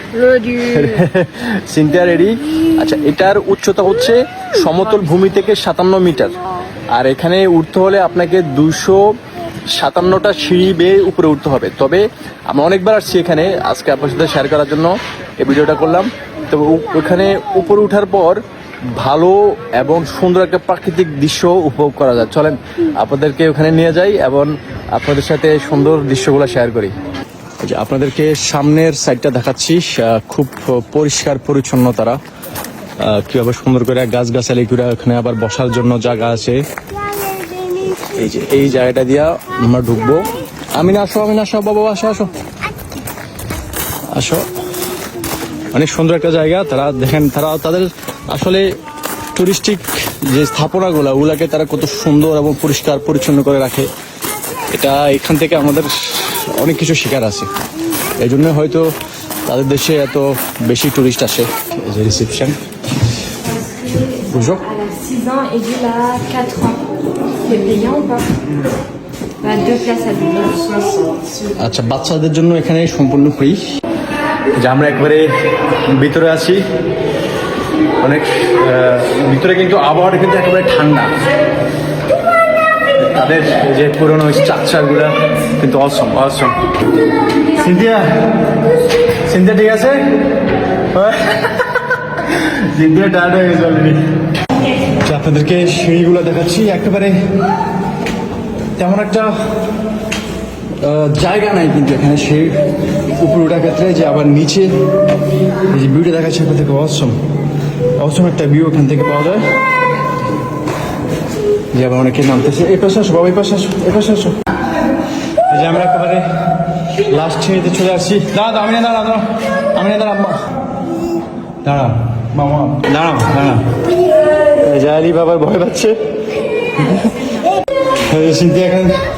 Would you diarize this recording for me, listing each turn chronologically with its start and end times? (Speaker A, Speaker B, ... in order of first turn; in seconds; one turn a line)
Speaker A: 0.2-0.6
Speaker B: 0.5-6.4
Speaker B: 7.0-9.1
Speaker B: 9.7-18.4
Speaker B: 18.9-26.9
Speaker B: 27.6-32.2
Speaker B: 33.0-36.6
Speaker B: 38.0-42.3
Speaker B: 44.1-44.5
Speaker B: 45.7-48.7
Speaker B: 49.3-53.9
Speaker B: 54.7-57.5
Speaker B: 58.2-58.9
Speaker B: 59.5-62.6
Speaker A: 63.4-68.4
Speaker B: 64.3-64.7
Speaker A: 69.4-71.2
Speaker B: 71.6-73.6
Speaker B: 74.6-75.3
Speaker B: 75.9-76.6
Speaker B: 78.0-81.2
Speaker B: 83.0-86.6
Speaker B: 87.5-88.2
Speaker B: 89.3-90.0
Speaker B: 90.9-94.0
Speaker B: 95.0-97.2
Speaker B: 98.8-99.3
Speaker B: 100.8-104.7
Speaker B: 105.7-107.2
Speaker B: 108.0-109.4
Speaker B: 111.7-114.4
Speaker B: 115.5-116.3
Speaker B: 116.9-120.5
Speaker B: 121.6-123.7
Speaker B: 124.5-126.0
Speaker B: 126.8-127.2
Speaker A: 126.8-127.5
Speaker B: 128.0-129.0